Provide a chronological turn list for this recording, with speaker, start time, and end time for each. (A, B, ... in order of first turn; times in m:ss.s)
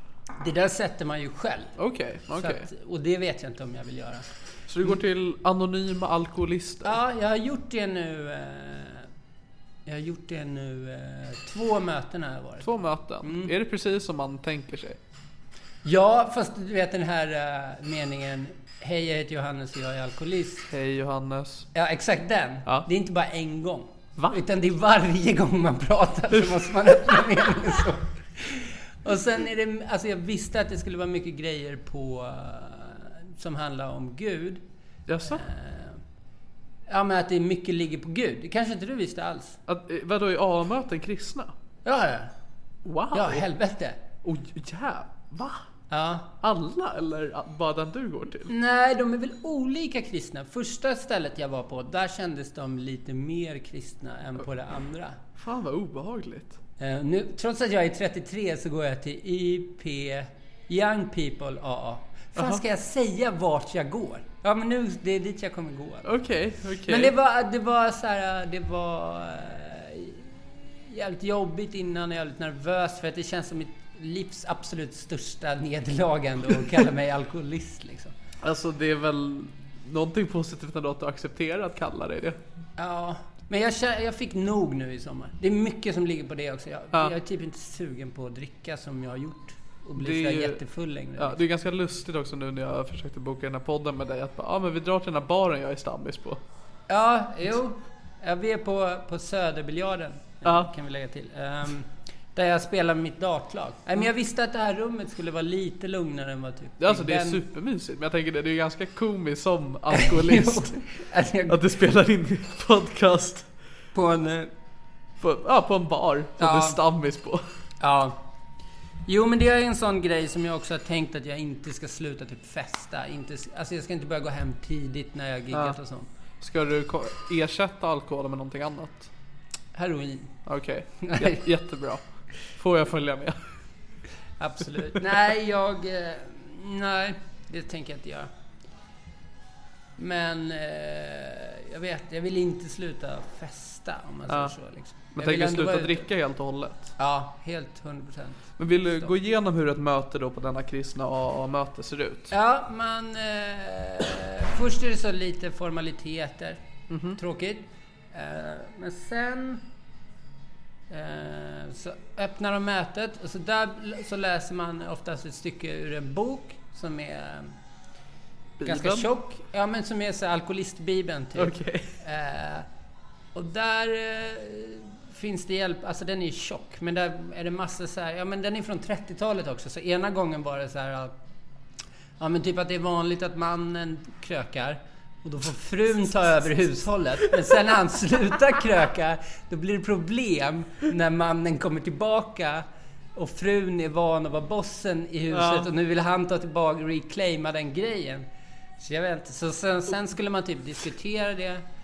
0:00.4-0:01.7 A
0:01.8-0:02.7 B
0:02.3-0:04.3 A
0:04.7-0:07.0 B
0:06.8-0:09.1 A
0:09.9-0:12.7 A
0:12.6-0:15.0 B
0:13.2-0:13.5 A
0:15.8-0:20.7 A
0:20.7-0:21.7 B
0:21.7-0:34.6 A
0:26.4-0:27.2 B
0:35.1-0:35.4 B
0:35.3-0:36.0 A
0:36.9-0:39.6 A
0:39.7-0:41.5 B
0:41.8-0:42.3 A
0:42.8-0:43.5 B
0:43.1-0:44.0 A
0:44.2-0:45.6 B
0:45.9-0:46.3 A
0:46.4-0:48.5 B
0:48.5-0:55.2 A
0:55.4-0:56.6 B
0:56.8-1:06.1 A
1:02.4-1:02.6 B
1:06.0-1:07.1 B
1:06.9-1:18.1 A
1:18.4-1:22.4 B
1:22.8-1:31.4 A
1:30.0-1:30.6 B
1:31.2-1:36.4 B
1:36.9-1:47.4 A
1:40.4-1:40.7 B
1:46.8-1:50.9 B
1:49.9-1:51.6 A
1:51.5-1:53.5 B
1:53.9-1:54.5 A
1:55.2-1:57.4 B
1:56.4-1:56.8 A
1:57.8-1:58.2 A
1:59.1-2:06.1 A
2:05.5-2:05.8 B
2:06.4-2:09.1 B
2:09.8-2:10.4 A
2:10.4-2:13.4 B
2:11.0-2:11.4 A
2:14.4-2:18.3 A
2:20.0-2:26.1 A
2:24.3-2:24.6 B
2:25.2-2:26.9 B
2:27.0-2:29.1 A
2:28.6-2:32.3 B
2:32.3-2:36.6 A
2:36.9-2:37.2 B
2:37.2-2:39.6 A
2:40.9-2:47.6 A
2:48.6-2:49.1 B
2:48.6-2:52.7 A
2:51.4-2:51.9 B
2:53.4-3:01.2 A
3:02.2-3:18.3 A
3:15.3-3:15.7 B
3:18.8-3:21.6 A